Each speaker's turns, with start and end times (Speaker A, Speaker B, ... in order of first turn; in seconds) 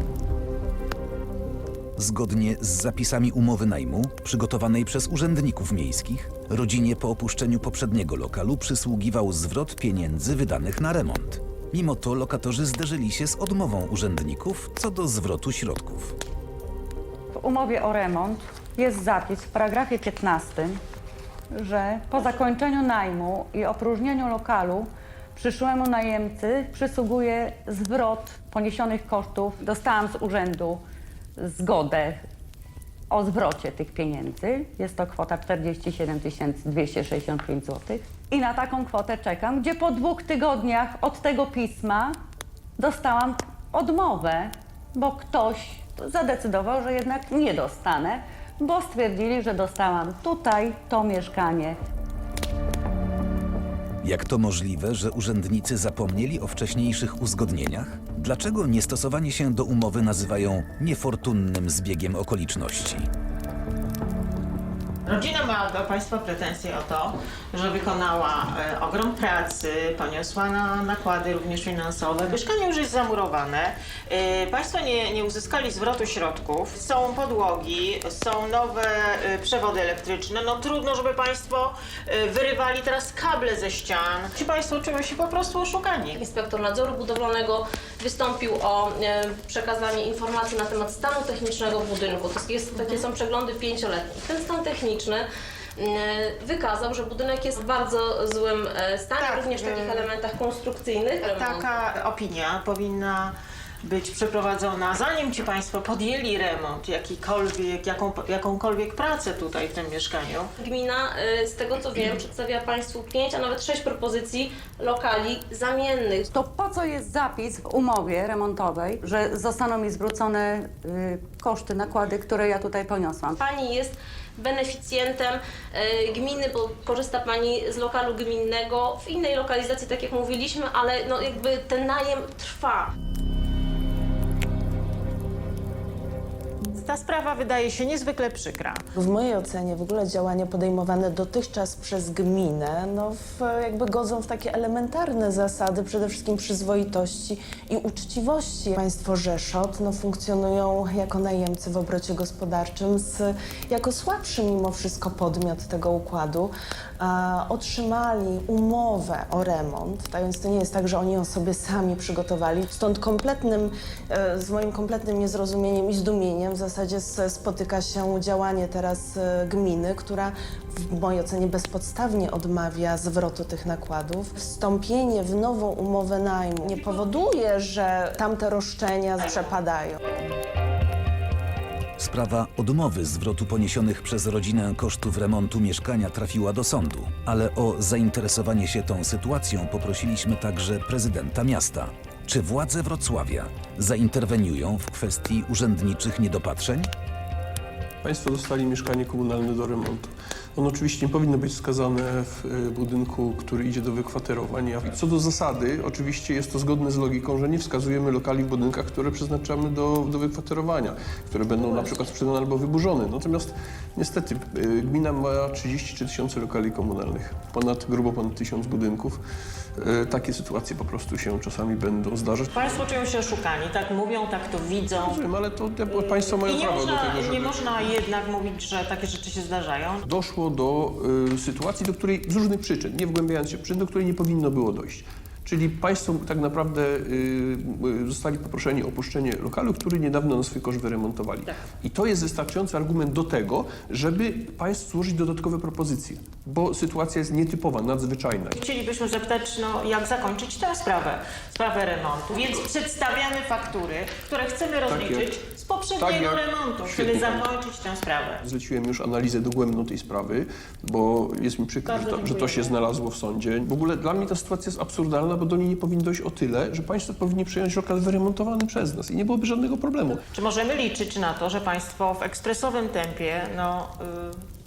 Speaker A: 2.0-16.2, 54.0-63.1, 182.0-196.9
Speaker B: 17.4-20.8, 21.5-30.8, 31.4-32.2, 33.1-42.2, 42.8-51.8, 116.3-123.4
Speaker C: 65.1-86.2, 99.2-100.0, 101.2-110.5, 136.7-138.9, 222.5-225.2, 225.9-230.0, 248.6-258.4, 261.9-262.7, 270.3-274.4
Speaker D: 86.2-95.3, 95.8-101.8, 110.6-116.3, 123.4-132.9
Speaker E: 139.0-180.0
Speaker F: 198.0-219.2, 219.8-223.0, 225.0-228.0, 230.0-248.6, 254.9-255.4, 255.9-257.7, 258.4-270.2